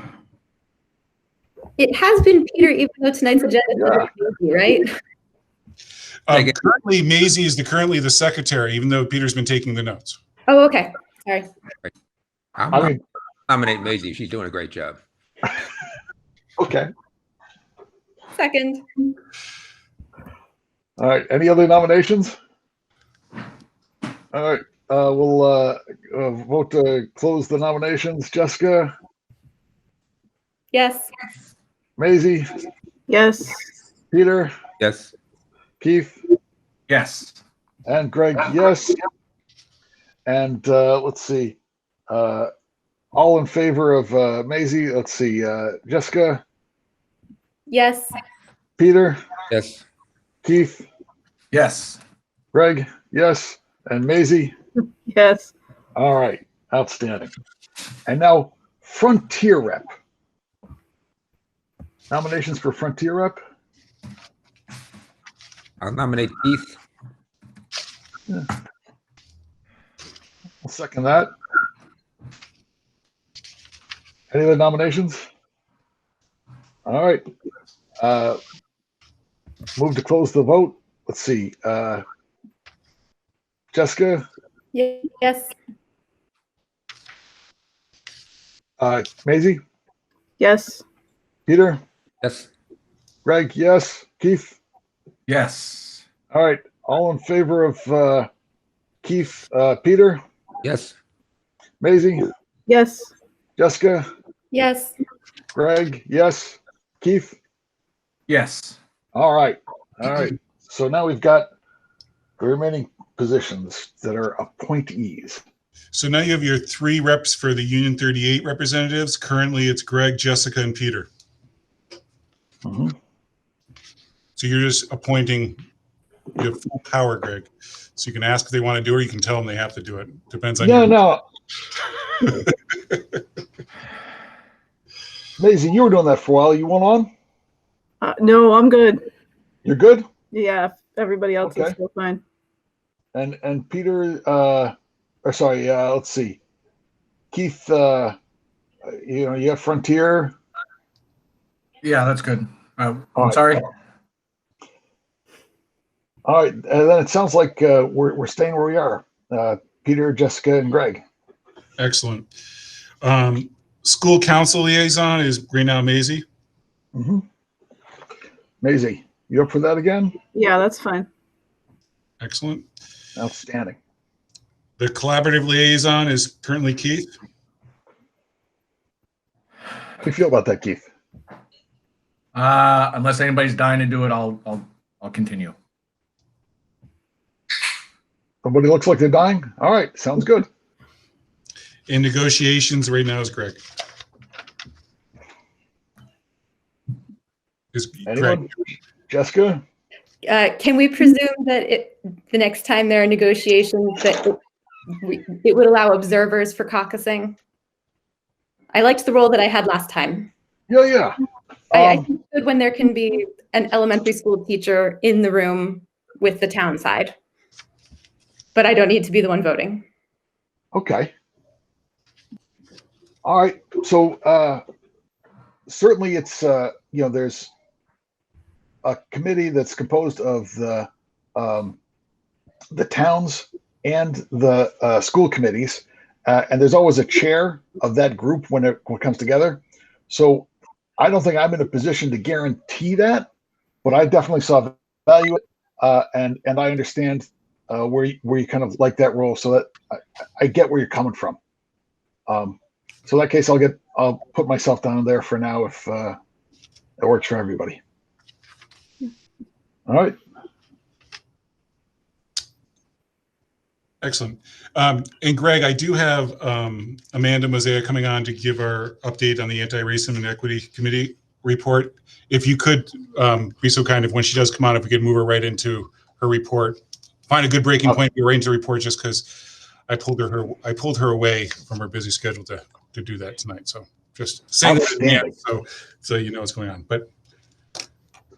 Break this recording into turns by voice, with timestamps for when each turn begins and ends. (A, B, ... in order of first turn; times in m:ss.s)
0:01.8-0:04.9 A
0:03.8-0:04.1 B
0:06.3-0:10.2 C
0:06.3-0:06.6 D
0:10.5-0:11.5 A
0:12.6-0:12.9 D
0:12.7-0:13.0 B
0:13.5-0:15.0 D
0:16.6-0:16.9 B
0:18.4-0:18.8 A
0:21.0-0:22.4 B
0:24.3-0:28.9 B
0:30.7-0:31.1 A
0:32.0-0:32.4 B
0:33.1-0:33.6 E
0:34.1-0:34.5 B
0:34.8-0:35.1 D
0:35.8-0:36.2 B
0:36.9-0:37.4 F
0:37.8-0:39.0 B
0:40.2-0:41.6 B
0:42.1-0:42.5 B
0:43.1-0:46.4 B
0:47.7-0:48.1 A
0:48.8-0:49.2 B
0:49.5-0:49.8 D
0:50.4-0:50.9 B
0:51.5-0:52.0 F
0:52.5-0:54.5 B
0:55.1-0:55.5 E
0:56.0-0:57.3 B
0:58.1-0:59.9 B
1:02.1-1:03.4 B
1:05.8-1:06.8 D
1:10.6-1:11.3 B
1:14.3-1:15.2 B
1:16.8-1:17.2 B
1:18.0-1:18.4 B
1:19.8-1:22.0 B
1:23.7-1:24.2 B
1:24.7-1:25.5 A
1:28.8-1:29.6 B
1:30.4-1:30.8 E
1:31.5-1:31.8 B
1:32.2-1:32.5 D
1:33.2-1:34.6 B
1:35.3-1:36.0 F
1:36.3-1:38.3 B
1:39.0-1:40.2 B
1:40.6-1:40.9 D
1:41.8-1:42.3 B
1:42.7-1:43.1 E
1:43.6-1:44.0 B
1:44.5-1:45.0 A
1:45.5-1:47.4 B
1:48.3-1:48.8 F
1:49.1-1:51.5 B
1:52.4-1:55.4 B
1:55.9-2:01.1 C
2:02.6-2:02.9 B
2:04.4-2:05.6 C
2:06.4-2:11.0 C
2:10.6-2:11.2 B
2:12.2-2:13.0 C
2:15.4-2:17.1 B
2:18.0-2:19.0 E
2:19.6-2:20.1 B
2:20.3-2:22.2 E
2:21.4-2:21.8 B
2:23.1-2:24.7 B
2:25.2-2:26.4 B
2:27.3-2:28.2 B
2:28.8-2:30.3 B
2:31.8-2:33.6 F
2:33.2-2:33.4 B
2:36.2-2:41.0 B
2:41.8-2:42.3 C
2:43.0-2:46.2 C
2:46.9-2:47.2 B
2:48.6-2:50.1 B
2:50.3-2:51.1 E
2:52.2-2:52.6 C
2:53.2-2:53.8 B
2:54.8-2:57.1 C
3:00.0-3:00.8 B
3:02.3-3:05.5 F
3:08.4-3:10.5 B
3:11.9-3:13.6 C
3:17.7-3:18.4 C
3:18.1-3:18.5 B
3:19.1-3:19.6 B
3:20.2-3:24.4 A
3:24.9-3:27.4 A
3:28.7-3:30.3 A
3:30.7-3:31.2 B
3:31.7-3:32.0 B
3:31.7-3:37.1 A
3:38.5-3:39.8 A
3:40.7-3:41.1 B
3:43.2-3:44.6 B
3:45.7-3:47.5 B
3:48.8-3:51.8 B
3:52.7-4:03.3 B
4:03.8-4:11.4 B
4:12.3-4:16.2 B
4:17.0-4:17.8 B
4:19.9-4:20.2 B
4:24.0-4:39.3 C
4:39.9-4:47.1 C
4:44.6-4:45.3 B